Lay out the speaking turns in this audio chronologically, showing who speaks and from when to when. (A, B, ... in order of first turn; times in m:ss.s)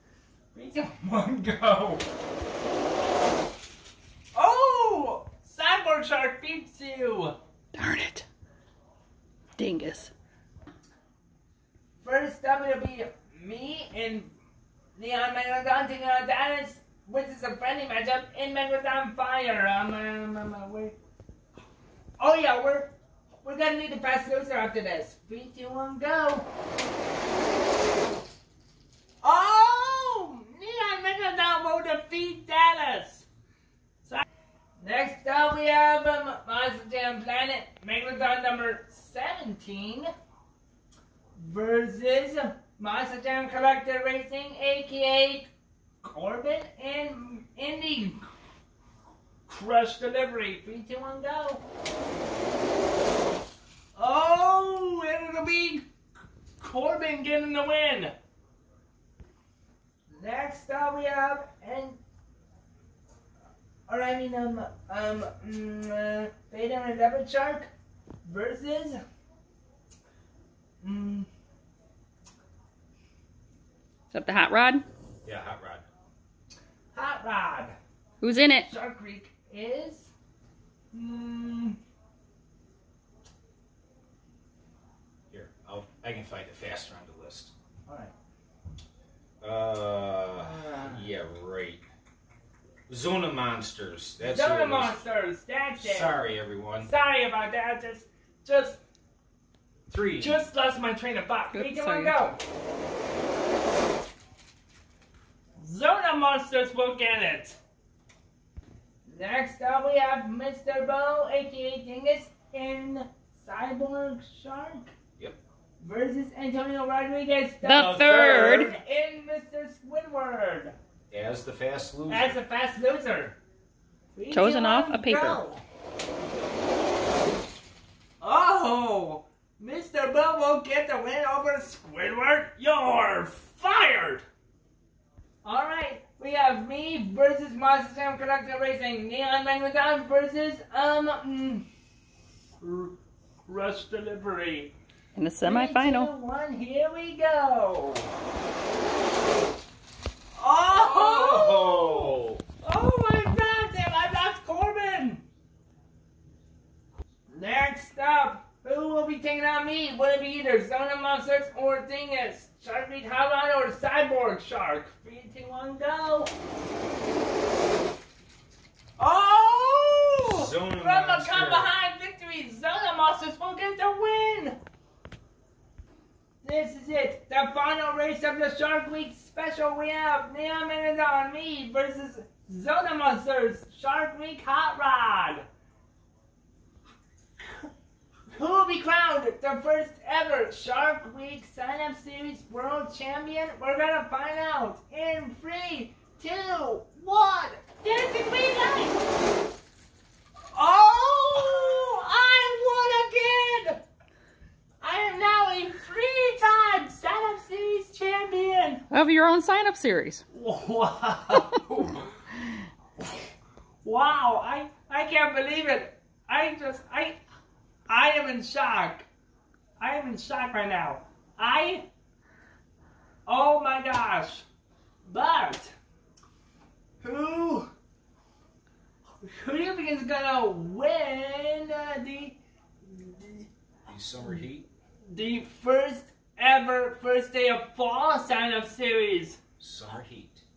0:00.5-0:02.0 A
0:04.3-0:07.3 A
0:07.7-0:08.2 B
0:09.6-0:10.1 B
0:12.0-0:14.3 A
0:15.0-0:20.9 A
0:22.2-0:26.4 A
0:29.2-0:33.3 A
0:34.8-0:40.1 A
0:41.4-0:45.5 A
0:46.0-0:48.2 A
0:49.5-0:51.6 A
0:54.0-0:55.8 A
0:56.6-0:58.1 A
1:00.1-1:02.0 A
1:03.9-1:07.7 A
1:08.2-1:09.0 A
1:10.8-1:11.3 A
1:14.1-1:14.8 B
1:15.2-1:15.8 C
1:16.9-1:17.7 A
1:18.2-1:18.7 B
1:18.6-1:20.1 A
1:20.9-1:21.8 A
1:25.3-1:27.5 C
1:27.9-1:28.1 A
1:29.4-1:31.8 C
1:30.3-1:31.1 A
1:32.9-1:35.0 C
1:34.2-1:36.2 A
1:35.8-1:36.9 C
1:36.8-1:38.8 A
1:39.9-1:40.4 C
1:40.2-1:42.4 A
1:41.5-1:42.2 B
1:45.6-1:47.6 A
1:49.0-1:54.9 A
1:55.8-2:00.7 A
1:57.6-1:58.8 B
2:01.1-2:02.4 C
2:02.1-2:03.4 A
2:04.1-2:05.6 A
2:04.3-2:05.4 B
2:08.2-2:14.2 A
2:15.4-2:21.6 A
2:22.6-2:24.7 A
2:25.1-2:26.1 B
2:25.4-2:28.1 A
2:30.4-2:35.2 A
2:30.7-2:32.4 C
2:37.3-2:46.3 A
2:49.0-2:54.6 A
2:50.3-2:51.7 C
2:56.4-3:05.4 A
3:08.3-3:19.0 A
3:20.5-3:23.8 A
3:24.8-3:28.8 A
3:28.9-3:30.2 B
3:30.3-3:32.1 A
3:33.8-3:37.2 A
3:37.9-3:39.1 A
3:39.8-3:41.8 A
3:43.2-3:44.4 A
3:45.0-3:45.7 A
3:47.0-3:47.7 A
3:49.2-3:53.5 A
3:53.9-3:54.7 C
3:55.1-3:59.4 A
3:59.6-4:00.4 C